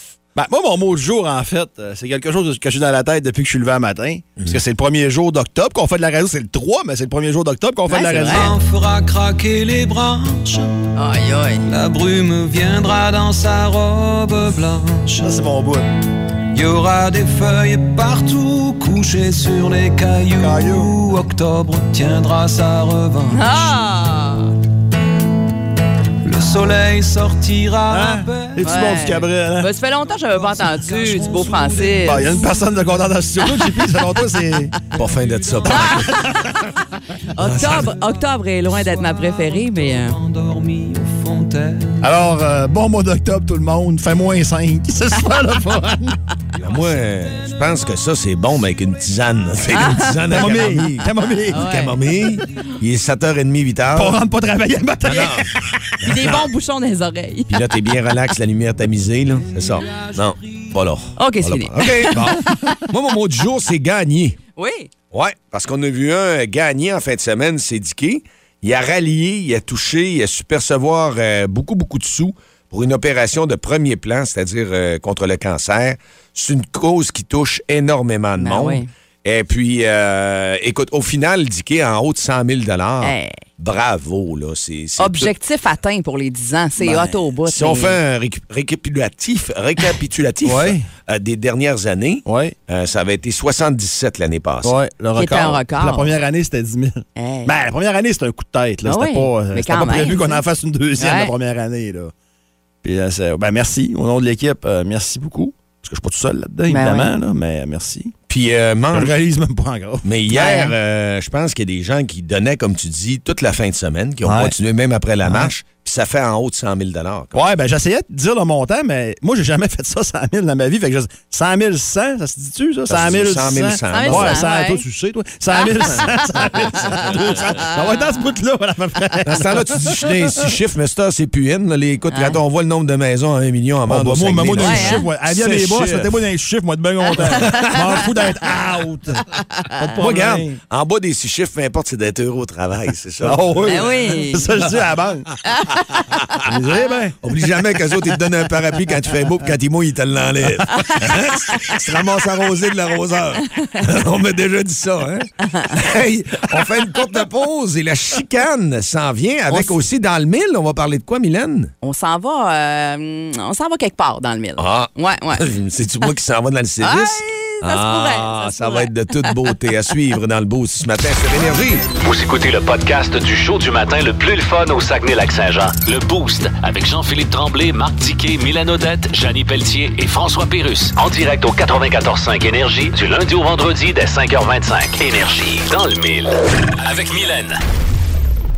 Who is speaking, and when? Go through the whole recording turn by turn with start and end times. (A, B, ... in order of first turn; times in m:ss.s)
0:00.4-0:08.5 A
0:07.9-0:08.5 B
0:08.3-0:10.7 C
0:11.0-0:11.7 B
0:11.7-0:15.3 C
0:15.2-0:15.9 A
0:16.5-0:23.8 C
0:20.4-0:20.9 A
0:23.3-0:24.5 B
0:26.2-0:29.0 C
0:27.9-0:29.7 A
0:28.6-0:32.4 B
0:29.8-0:32.9 C
0:32.0-0:34.8 A
0:33.4-0:33.8 B
0:34.9-0:36.4 C
0:34.9-0:36.1 D
0:35.8-0:36.2 B
0:35.8-0:36.5 A
0:37.4-0:40.2 B
0:37.4-0:42.1 C
0:37.5-0:37.8 A
0:42.0-0:46.2 A
0:46.6-0:49.5 C
0:46.6-0:54.2 D
0:49.7-0:50.2 B
0:50.3-0:51.6 A
0:51.5-0:52.0 B
0:53.9-0:55.6 A
0:55.0-0:55.5 D
0:56.0-0:56.5 D
0:56.0-0:57.6 B
0:57.5-1:04.4 D
0:59.4-1:00.8 C
1:01.2-1:02.5 B
1:04.6-1:04.9 B
1:05.1-1:25.3 D
1:18.4-1:18.9 B
1:23.0-1:23.4 B
1:25.0-1:28.0 B
1:26.8-1:27.2 A
1:27.5-1:34.8 D
1:30.4-1:30.9 A
1:32.2-1:32.6 A
1:34.6-1:42.1 A
1:35.2-1:36.2 B
1:37.2-1:37.5 B
1:38.9-1:40.4 B
1:41.0-1:41.3 B
1:42.8-1:48.1 A
1:46.7-1:47.1 B
1:48.3-1:49.1 D
1:48.9-1:50.1 A
1:50.0-1:57.4 D
1:50.3-1:50.7 B
1:54.2-1:54.5 A
1:55.2-1:55.5 A
1:57.3-2:10.5 A
2:02.9-2:04.4 D
2:03.9-2:04.8 B
2:05.5-2:08.0 B
2:09.3-2:16.1 D
2:12.1-2:12.4 B
2:13.9-2:20.6 A
2:14.6-2:15.1 B
2:17.2-2:18.0 B
2:17.2-2:17.8 D
2:19.6-2:20.0 B
2:20.0-2:23.9 D
2:23.2-2:25.3 A
2:23.7-2:24.5 B
2:26.4-2:27.3 A
2:27.2-2:41.7 D
2:33.5-2:33.8 B
2:35.4-2:35.8 B
2:41.8-2:45.5 B
2:44.6-2:51.9 D
2:46.8-2:49.3 B
2:52.0-3:07.6 E